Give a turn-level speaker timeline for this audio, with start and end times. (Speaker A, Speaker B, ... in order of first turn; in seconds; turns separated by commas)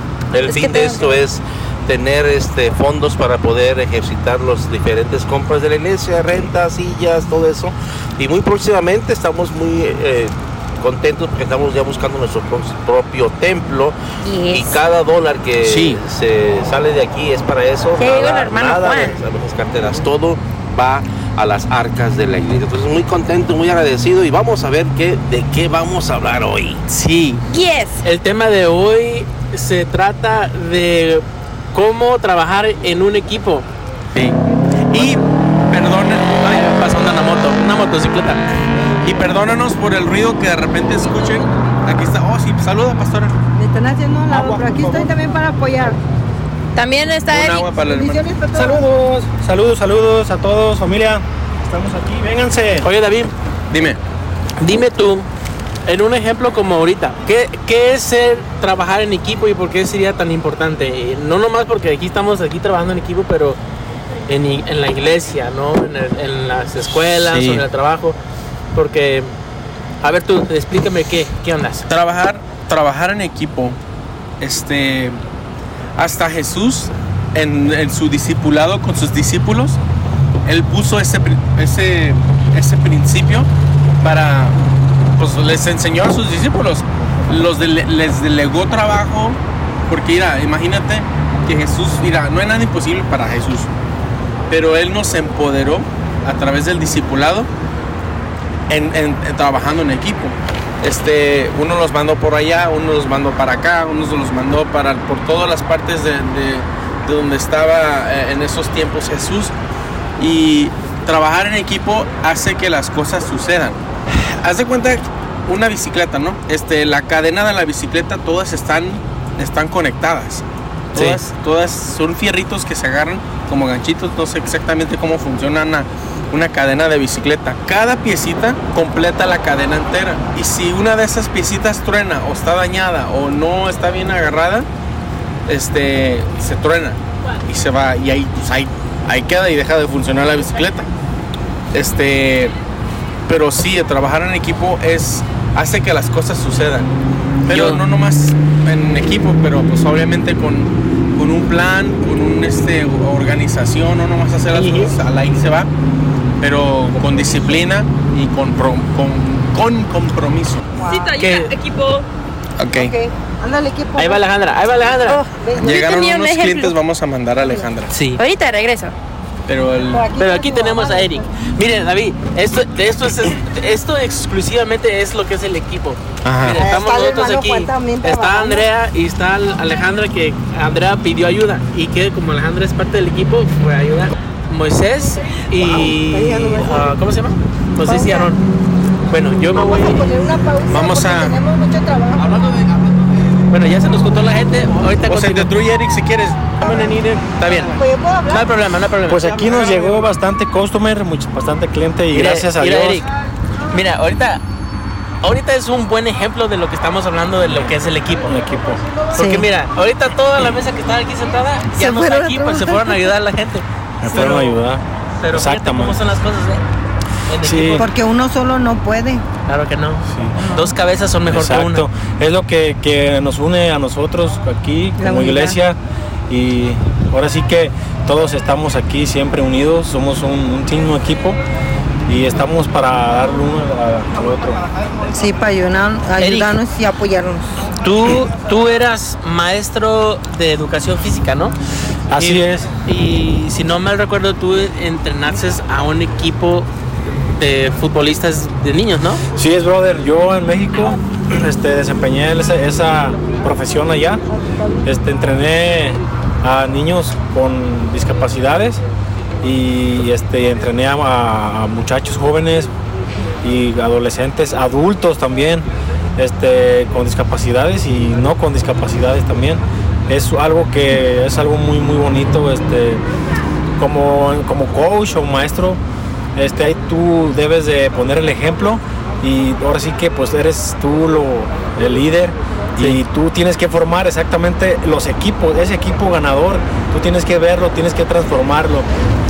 Speaker A: 0.3-26.8, Speaker B: 0.4-1.1, Speaker C: 14.2-14.8, Speaker D: 15.6-16.0, Speaker C: 18.0-19.2, Speaker D: 26.9-27.4, Speaker C: 27.5-28.0, Speaker E: 28.0-33.7, Speaker D: 34.9-36.9, Speaker E: 36.5-38.4, Speaker D: 39.0-43.4, Speaker B: 43.6-46.0, Speaker D: 44.3-45.0, Speaker F: 44.6-44.9, Speaker C: 46.8-47.7, Speaker D: 47.3-48.3, Speaker B: 47.7-48.8, Speaker F: 48.5-52.9, Speaker E: 52.8-53.3, Speaker D: 53.7-54.0, Speaker E: 54.6-55.3, Speaker E: 55.9-63.6, Speaker E: 64.3-68.2, Speaker D: 66.9-67.7, Speaker E: 68.8-69.3, Speaker E: 70.0-71.9, Speaker D: 71.9-73.8, Speaker D: 74.4-75.2, Speaker D: 76.0-79.8, Speaker D: 80.5-83.5, Speaker D: 84.0-84.5, Speaker D: 85.2-93.7, Speaker D: 94.5-97.5, Speaker D: 98.7-109.5, Speaker D: 110.2-134.7, Speaker E: 121.0-121.2, Speaker D: 135.5-140.9, Speaker D: 141.7-142.5, Speaker D: 143.3-146.9, Speaker D: 147.5-155.7, Speaker E: 147.5-147.8, Speaker E: 154.5-154.9, Speaker D: 156.4-160.7, Speaker B: 160.8-161.2, Speaker C: 160.8-162.1, Speaker E: 161.2-161.5, Speaker D: 162.6-162.9, Speaker B: 162.7-164.2, Speaker E: 164.0-165.2, Speaker C: 165.1-166.8, Speaker B: 165.3-165.9, Speaker D: 165.6-167.9, Speaker E: 167.9-168.2, Speaker C: 168.2-168.9, Speaker D: 169.5-170.1, Speaker B: 169.9-171.3, Speaker E: 170.2-188.4, Speaker D: 176.2-176.6, Speaker B: 176.5-178.7, Speaker B: 185.6-186.9, Speaker B: 187.8-188.3, Speaker E: 189.1-190.1, Speaker B: 189.5-192.4, Speaker D: 190.7-191.4, Speaker E: 193.5-195.5, Speaker D: 195.1-197.7, Speaker E: 196.6-199.5, Speaker B: 197.8-198.5, Speaker F: 199.1-203.0, Speaker D: 199.4-200.0, Speaker E: 202.1-203.1, Speaker E: 203.7-204.4, Speaker E: 205.2-208.4, Speaker F: 208.2-208.8, Speaker E: 209.1-214.5, Speaker B: 209.1-209.5, Speaker B: 211.8-213.0, Speaker F: 214.0-216.0, Speaker E: 215.2-216.6, Speaker E: 217.3-217.9, Speaker F: 217.4-217.9, Speaker B: 217.7-219.2, Speaker E: 219.5-221.8, Speaker F: 220.1-220.4, Speaker B: 220.4-220.7, Speaker F: 221.3-225.8, Speaker B: 225.0-225.6, Speaker F: 226.3-231.4, Speaker F: 232.1-234.6, Speaker B: 235.1-237.6, Speaker E: 236.2-236.6, Speaker E: 237.8-241.6, Speaker F: 242.1-242.7, Speaker E: 242.2-246.7, Speaker E: 247.3-249.2, Speaker F: 249.3-254.2, Speaker F: 254.8-258.8, Speaker F: 259.4-262.7, Speaker F: 263.4-265.7, Speaker F: 266.2-273.0, Speaker F: 273.8-275.8, Speaker F: 276.4-288.9